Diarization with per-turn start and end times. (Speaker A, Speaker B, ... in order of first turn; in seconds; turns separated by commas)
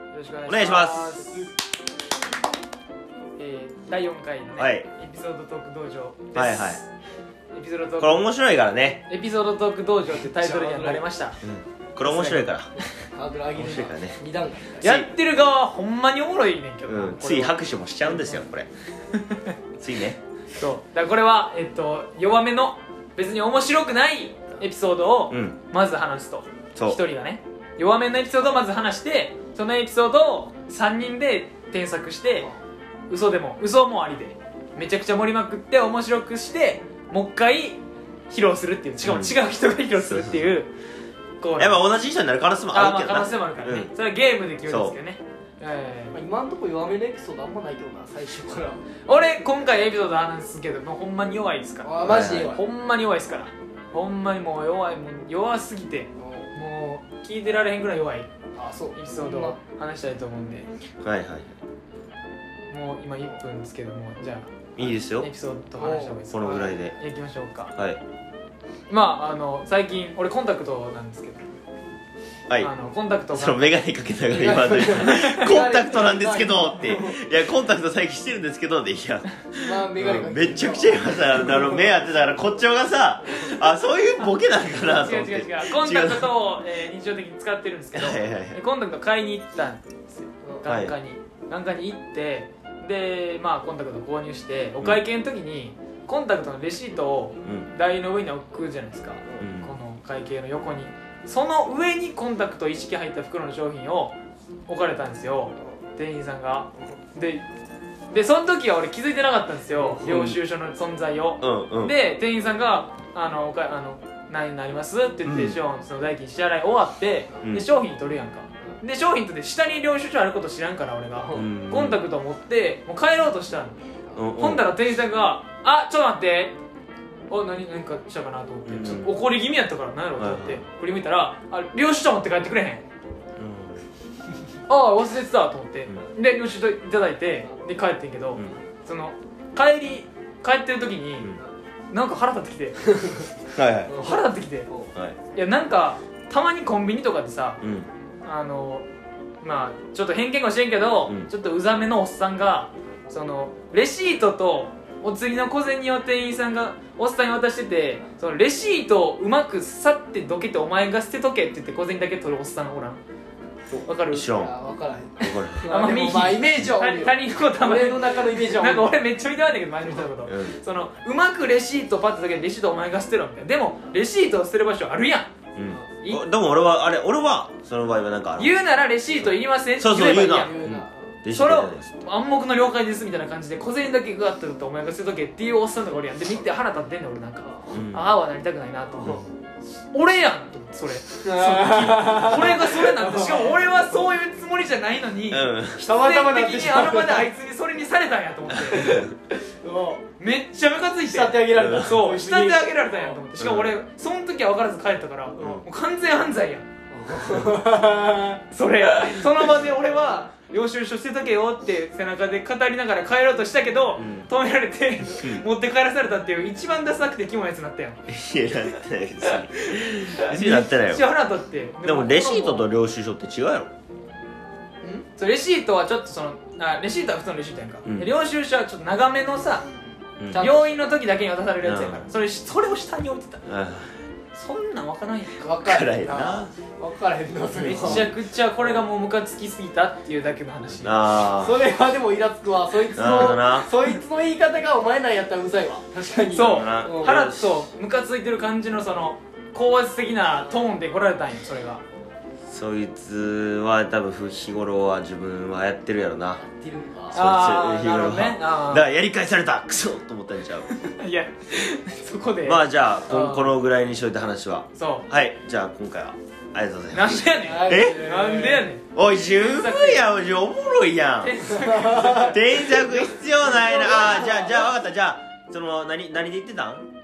Speaker A: 0.1-1.5, Speaker B: 0.5-1.2, Speaker C: 1.1-1.6, Speaker A: 3.4-6.9, Speaker B: 4.6-4.9, Speaker B: 6.3-6.8, Speaker A: 7.5-8.2, Speaker B: 8.0-9.1, Speaker A: 9.1-11.4, Speaker C: 10.2-11.1, Speaker B: 11.4-12.7, Speaker A: 12.0-12.5, Speaker C: 12.8-14.9, Speaker B: 13.6-14.2, Speaker B: 14.8-15.1, Speaker A: 14.8-18.4, Speaker B: 16.9-18.7, Speaker A: 19.1-19.5, Speaker B: 19.8-20.2, Speaker A: 20.6-32.5, Speaker B: 25.3-25.6, Speaker A: 33.1-40.7, Speaker B: 39.0-39.4, Speaker B: 40.0-40.5, Speaker A: 41.4-41.8, Speaker B: 41.6-43.9, Speaker A: 42.7-46.2, Speaker B: 44.7-45.0, Speaker C: 46.1-48.9, Speaker A: 49.1-58.3, Speaker C: 51.8-52.6, Speaker B: 52.0-52.5, Speaker C: 56.2-56.5, Speaker C: 58.5-59.6, Speaker A: 59.0-60.7, Speaker B: 61.0-61.5, Speaker A: 62.7-67.8, Speaker B: 64.8-65.3, Speaker C: 65.8-66.2, Speaker B: 66.3-67.0, Speaker B: 67.8-68.0, Speaker A: 68.9-71.5, Speaker A: 72.6-73.8, Speaker B: 73.3-86.4, Speaker C: 74.3-77.2, Speaker A: 75.1-75.5, Speaker C: 79.5-82.0, Speaker A: 84.7-107.5, Speaker B: 87.9-88.6, Speaker B: 90.7-90.9, Speaker B: 97.4-97.7, Speaker B: 99.4-99.8, Speaker A: 108.1-123.8, Speaker B: 110.0-110.4, Speaker B: 111.4-112.0, Speaker B: 115.2-115.6, Speaker C: 121.2-121.5, Speaker B: 121.3-122.0, Speaker B: 124.2-124.7, Speaker A: 124.3-126.6, Speaker A: 127.3-132.8, Speaker B: 128.7-129.2, Speaker B: 130.2-130.6, Speaker B: 133.4-133.8, Speaker A: 134.7-141.3, Speaker A: 141.9-142.9, Speaker B: 143.6-144.0, Speaker C: 143.9-144.9, Speaker A: 143.9-144.7, Speaker A: 145.3-147.6, Speaker B: 147.6-147.9, Speaker A: 148.2-148.9, Speaker A: 149.4-163.0, Speaker C: 163.8-169.0, Speaker A: 163.8-164.3, Speaker B: 164.1-164.5, Speaker B: 165.2-165.7, Speaker A: 165.7-175.3, Speaker B: 170.2-170.6, Speaker B: 175.6-178.6, Speaker A: 178.4-180.6, Speaker B: 179.2-181.9, Speaker C: 179.9-181.2, Speaker A: 181.3-189.2, Speaker B: 187.7-188.0, Speaker A: 189.9-199.1, Speaker C: 191.2-193.7, Speaker B: 195.3-195.9, Speaker C: 195.8-197.3, Speaker B: 198.5-199.1, Speaker C: 198.7-200.0, Speaker A: 200.2-206.7, Speaker C: 201.0-203.2, Speaker B: 201.6-202.0, Speaker B: 203.4-203.7, Speaker B: 205.4-205.6, Speaker C: 206.9-208.4, Speaker A: 208.5-218.0, Speaker B: 214.0-214.3, Speaker B: 215.2-215.4, Speaker B: 218.1-221.1, Speaker A: 219.8-222.7, Speaker B: 221.8-223.7, Speaker A: 225.1-229.7, Speaker B: 227.8-228.1, Speaker B: 230.2-230.5, Speaker C: 230.2-230.8, Speaker A: 230.3-233.5, Speaker B: 231.6-232.1, Speaker B: 233.4-234.0, Speaker A: 234.3-235.6, Speaker C: 235.4-238.8, Speaker B: 235.6-236.5, Speaker B: 237.5-238.1, Speaker A: 237.7-241.0, Speaker B: 240.8-241.6, Speaker C: 241.3-247.2, Speaker B: 242.9-243.7, Speaker A: 246.3-251.8, Speaker B: 246.5-247.7, Speaker C: 250.3-250.7, Speaker B: 252.5-256.4, Speaker C: 256.4-257.2, Speaker A: 257.1-258.9, Speaker B: 257.1-260.7, Speaker A: 260.7-263.5, Speaker B: 262.4-268.1, Speaker A: 264.8-265.1, Speaker A: 266.9-270.1, Speaker C: 267.4-268.7, Speaker B: 268.9-271.6, Speaker A: 271.2-273.0, Speaker C: 271.6-272.3, Speaker B: 272.2-276.9, Speaker C: 273.5-274.7